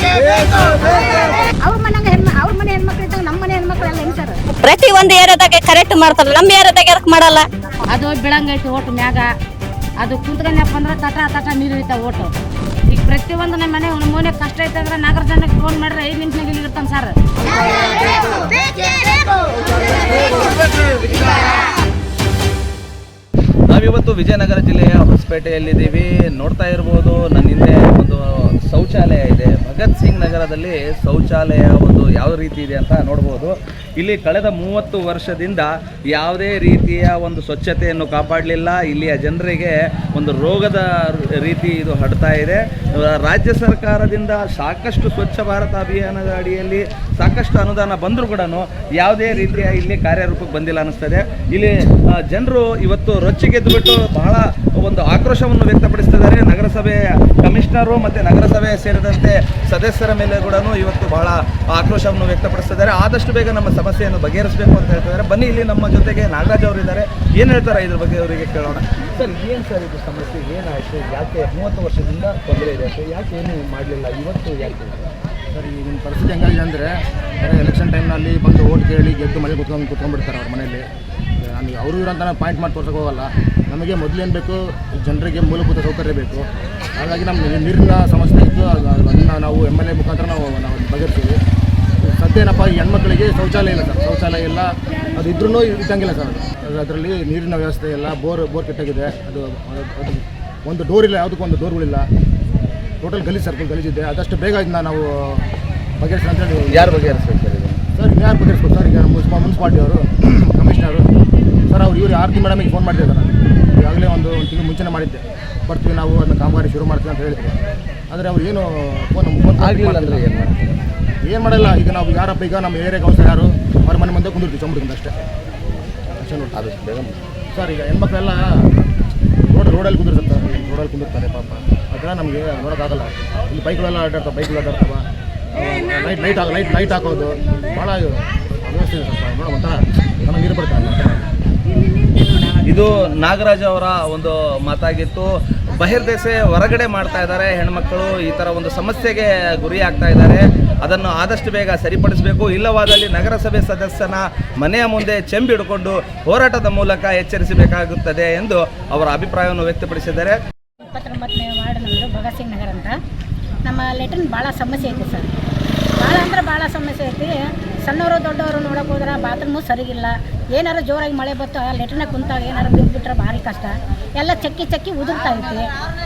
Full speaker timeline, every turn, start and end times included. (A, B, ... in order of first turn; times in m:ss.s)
0:01.6-0:04.4 A
0:04.6-0:07.4 B
0:07.9-0:09.3 C
0:10.0-0:12.3 C
0:12.9-0:17.2 C
0:23.7-0:51.7 D
0:52.3-1:15.1 D
1:15.5-1:20.8 E
1:21.4-1:26.4 E
1:27.0-1:31.4 E
1:32.0-1:42.0 E
1:43.0-1:45.5 E
1:46.0-1:47.2 E
1:46.7-1:47.8 D
1:48.0-1:51.1 E
1:51.7-1:57.6 E
1:58.1-2:00.3 E
1:59.6-2:00.8 D
2:01.2-2:05.1 E
2:06.2-2:06.6 E
2:06.5-2:07.2 D
2:07.5-2:08.4 E
2:09.5-2:21.2 E
2:22.6-2:40.4 D
2:40.9-2:42.9 A
2:43.6-2:45.3 A
2:46.0-2:47.3 A
2:47.9-2:55.6 A